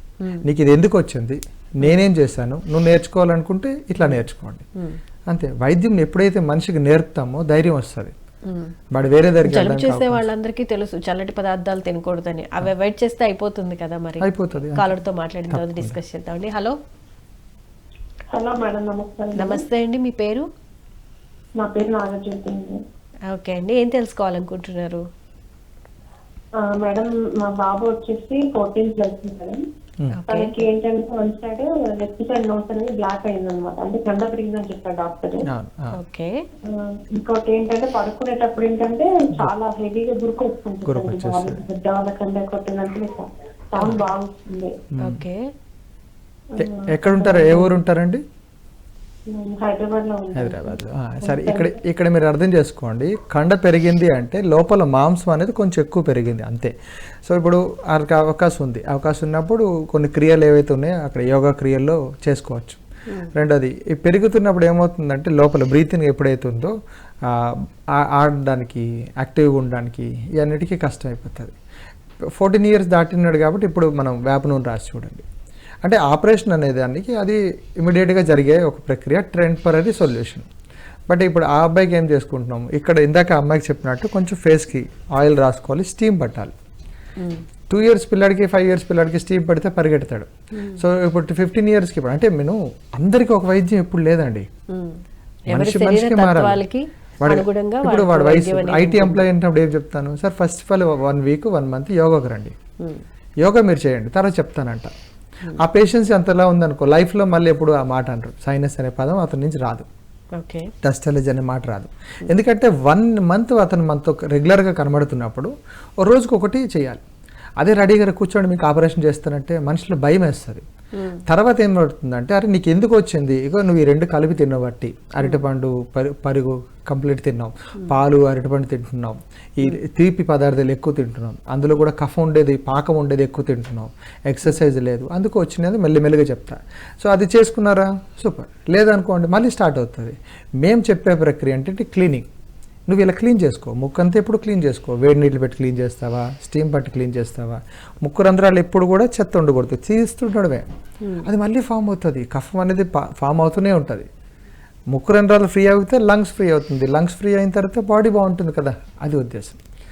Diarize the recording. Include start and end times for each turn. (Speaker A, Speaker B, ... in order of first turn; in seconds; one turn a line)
Speaker A: 0.4-4.6
Speaker A: 5.3-8.1
Speaker B: 8.5-8.7
Speaker A: 8.9-10.3
Speaker B: 9.4-16.7
Speaker A: 14.2-14.9
Speaker A: 15.5-16.0
Speaker C: 18.3-19.6
Speaker B: 19.4-20.4
Speaker C: 21.6-22.8
Speaker B: 23.3-25.0
Speaker C: 26.6-29.6
Speaker B: 30.1-30.5
Speaker C: 30.3-35.5
Speaker A: 35.5-35.9
Speaker B: 36.0-36.3
Speaker C: 36.6-44.7
Speaker A: 40.9-41.6
Speaker A: 44.9-45.2
Speaker B: 45.0-45.4
Speaker C: 46.5-47.7
Speaker A: 46.6-48.2
Speaker C: 49.3-51.7
Speaker A: 50.3-56.7
Speaker A: 57.2-62.8
Speaker A: 63.3-66.7
Speaker A: 67.2-71.5
Speaker A: 72.4-75.2
Speaker A: 75.8-80.5
Speaker A: 81.1-86.5
Speaker A: 87.7-94.5
Speaker B: 90.5-90.8
Speaker B: 94.7-95.0
Speaker A: 95.5-96.6
Speaker B: 95.5-99.2
Speaker A: 97.2-102.5
Speaker A: 103.4-104.9
Speaker A: 105.6-109.9
Speaker B: 110.3-110.7
Speaker A: 110.8-117.0
Speaker A: 117.6-120.6
Speaker A: 121.3-142.3
Speaker A: 142.9-150.7
Speaker A: 151.2-154.1
Speaker A: 154.9-159.6